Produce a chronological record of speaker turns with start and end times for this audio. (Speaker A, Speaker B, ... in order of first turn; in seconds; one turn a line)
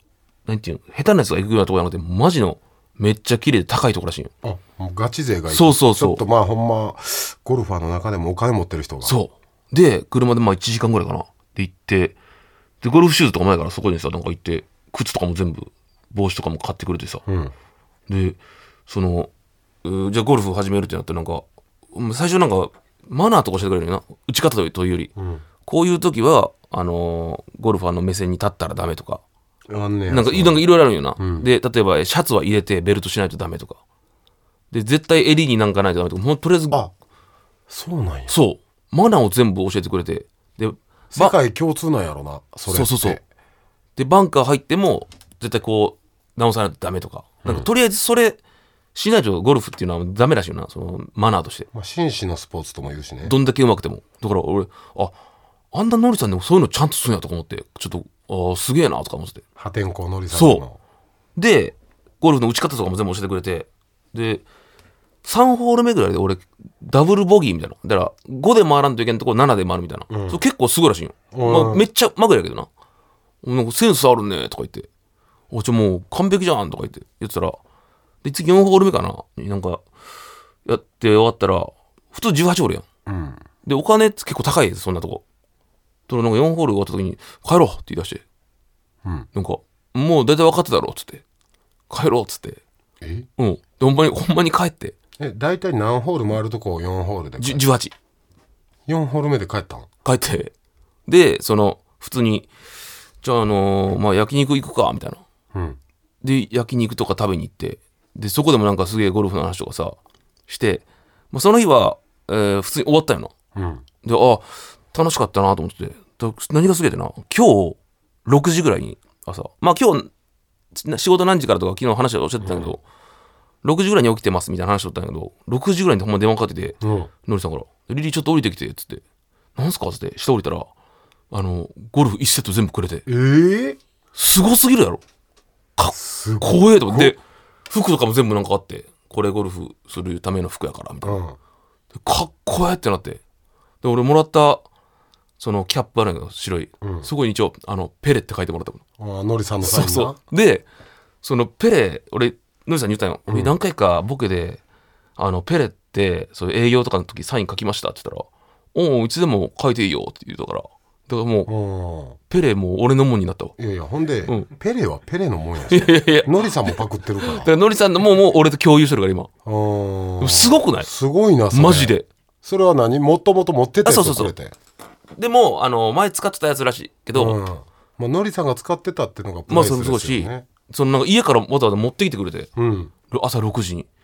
Speaker A: 0.5-4.3
Speaker B: 4.4-9.1
Speaker A: 5.5-6.2
Speaker A: 9.0-12.2
Speaker A: 12.8-17.2
Speaker B: 17.3-17.5
Speaker A: 18.1-19.3
Speaker A: 19.8-25.1
Speaker B: 25.2-25.4
Speaker A: 25.6-29.2
Speaker B: 29.7-30.6
Speaker A: 30.1-33.8
Speaker B: 31.2-31.5
Speaker A: 34.7-36.8
Speaker B: 37.7-38.3
Speaker A: 38.3-41.3
Speaker B: 41.1-43.2
Speaker A: 42.7-43.2
Speaker A: 44.0-48.4
Speaker A: 48.9-51.7
Speaker B: 51.7-53.3
Speaker A: 53.2-55.1
Speaker A: 55.7-59.4
Speaker B: 59.6-60.8
Speaker A: 60.3-60.6
Speaker A: 61.4-64.4
Speaker A: 65.2-72.7
Speaker B: 70.1-70.4
Speaker B: 71.3-71.8
Speaker A: 73.4-74.9
Speaker A: 75.5-77.6
Speaker A: 78.2-79.8
Speaker A: 80.7-82.8
Speaker B: 83.0-83.4
Speaker A: 83.6-85.2
Speaker A: 86.1-88.2
Speaker A: 89.3-91.2
Speaker A: 91.9-92.6
Speaker B: 93.0-93.3
Speaker A: 93.4-94.9
Speaker B: 95.2-97.6
Speaker A: 97.4-97.9
Speaker B: 98.9-99.9
Speaker A: 100.0-100.5
Speaker A: 101.1-102.5
Speaker A: 103.2-105.2
Speaker B: 105.5-105.8
Speaker A: 106.2-110.0
Speaker A: 110.5-113.3
Speaker B: 113.5-113.8
Speaker A: 114.0-120.1
Speaker A: 120.7-122.8
Speaker B: 122.4-122.7
Speaker A: 123.6-129.0
Speaker B: 126.8-127.1
Speaker A: 129.6-130.7
Speaker A: 131.3-133.1
Speaker B: 133.1-133.8
Speaker A: 134.1-135.0
Speaker A: 135.8-137.2
Speaker B: 135.9-137.1
Speaker A: 137.7-141.2
Speaker B: 141.0-141.4
Speaker A: 142.0-143.2
Speaker A: 143.8-144.6
Speaker A: 145.4-148.8
Speaker B: 146.8-147.1
Speaker B: 149.0-150.2
Speaker A: 149.6-150.6
Speaker A: 151.2-154.6
Speaker B: 153.3-153.5
Speaker A: 155.2-161.5
Speaker B: 161.5-162.2
Speaker A: 162.3-163.5
Speaker B: 163.6-167.5
Speaker A: 165.7-169.3
Speaker B: 169.4-174.5
Speaker A: 170.2-170.9
Speaker A: 171.5-172.1
Speaker A: 173.8-174.3
Speaker A: 175.2-177.4
Speaker B: 177.1-180.5
Speaker A: 179.5-182.5
Speaker B: 182.6-182.9
Speaker A: 183.1-183.9